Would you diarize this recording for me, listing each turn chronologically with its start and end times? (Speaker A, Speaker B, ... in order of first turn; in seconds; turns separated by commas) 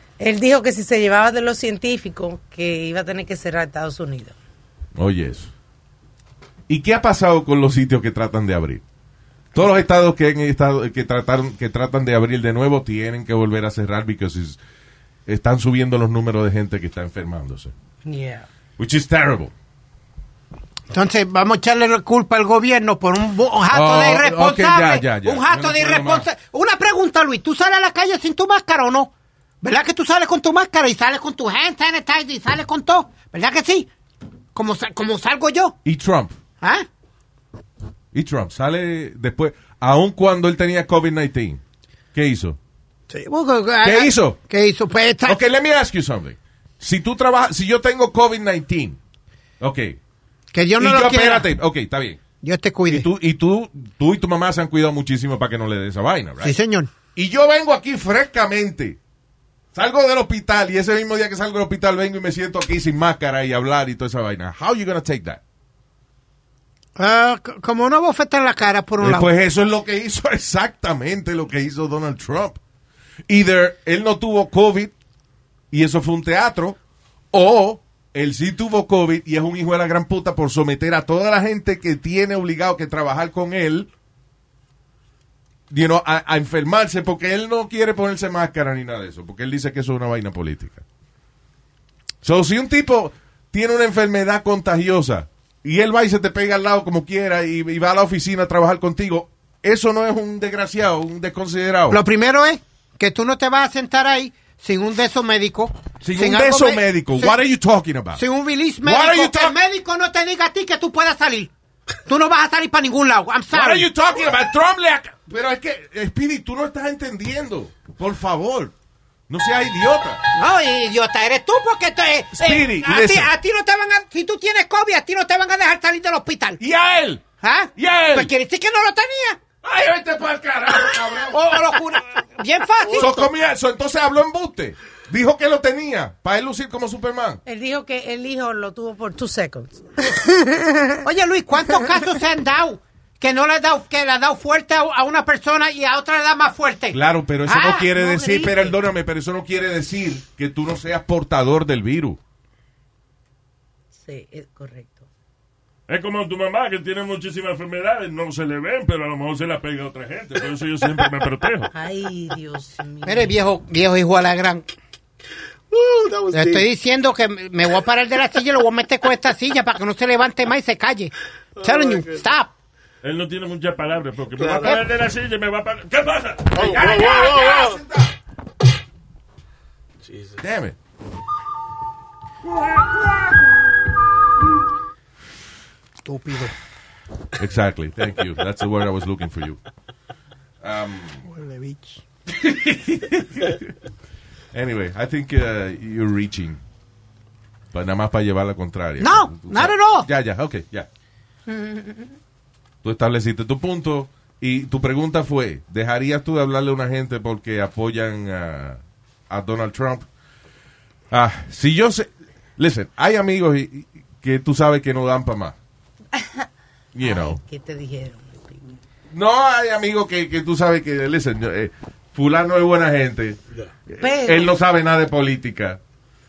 Speaker A: 0.2-4.3, Speaker B: 5.0-5.5, Speaker B: 6.7-8.8, Speaker B: 9.5-14.6, Speaker B: 15.3-17.7, Speaker A: 18.1-18.4, Speaker B: 18.8-19.5, Speaker C: 20.9-29.1, Speaker B: 23.7-26.3, Speaker C: 29.6-33.9, Speaker C: 34.5-35.8, Speaker B: 35.9-36.4, Speaker C: 36.6-36.9, Speaker B: 38.1-41.6, Speaker B: 42.1-42.6, Speaker C: 43.1-45.4, Speaker B: 43.8-44.4, Speaker B: 45.3-49.0, Speaker B: 49.6-50.0, Speaker C: 50.5-51.5, Speaker B: 50.8-52.2, Speaker C: 52.4-53.1, Speaker B: 52.9-56.6, Speaker C: 56.4-56.9, Speaker B: 57.1-59.0, Speaker B: 59.7-65.4, Speaker C: 67.0-69.3, Speaker B: 69.0-72.6, Speaker B: 73.3-74.9, Speaker B: 75.7-76.8, Speaker B: 77.3-83.9, Speaker B: 85.7-90.8, Speaker B: 92.2-102.0, Speaker C: 101.9-107.4, Speaker B: 106.0-108.2, Speaker C: 108.2-111.5, Speaker B: 108.8-109.6, Speaker C: 112.1-113.9, Speaker B: 113.5-118.7, Speaker B: 119.3-120.2, Speaker C: 120.3-126.6, Speaker B: 122.3-123.3, Speaker B: 126.6-127.2, Speaker C: 127.4-129.4, Speaker B: 127.8-128.3, Speaker B: 129.6-131.8, Speaker C: 131.3-133.2, Speaker B: 132.9-137.4, Speaker A: 137.5-140.4, Speaker C: 141.0-147.0, Speaker B: 146.9-152.2, Speaker A: 147.6-148.8, Speaker A: 154.0-155.1, Speaker D: 155.9-161.7, Speaker A: 161.7-163.4, Speaker C: 163.0-164.7, Speaker E: 165.7-166.7, Speaker C: 166.3-172.5, Speaker E: 171.6-172.3, Speaker D: 173.0-176.8, Speaker E: 174.4-174.8, Speaker B: 176.5-178.2, Speaker E: 176.5-177.8, Speaker E: 180.0-180.4, Speaker B: 180.4-180.8, Speaker C: 186.1-186.6, Speaker B: 187.3-189.6, Speaker B: 190.6-191.3, Speaker C: 191.3-192.0, Speaker B: 192.3-193.7, Speaker B: 194.5-196.6, Speaker B: 197.7-200.9, Speaker C: 199.0-200.1, Speaker A: 201.5-202.1, Speaker B: 202.8-210.1, Speaker B: 211.1-215.6, Speaker A: 216.2-216.5, Speaker B: 216.9-217.4, Speaker A: 217.0-218.8, Speaker B: 219.1-223.4, Speaker B: 223.9-225.8, Speaker A: 224.0-224.5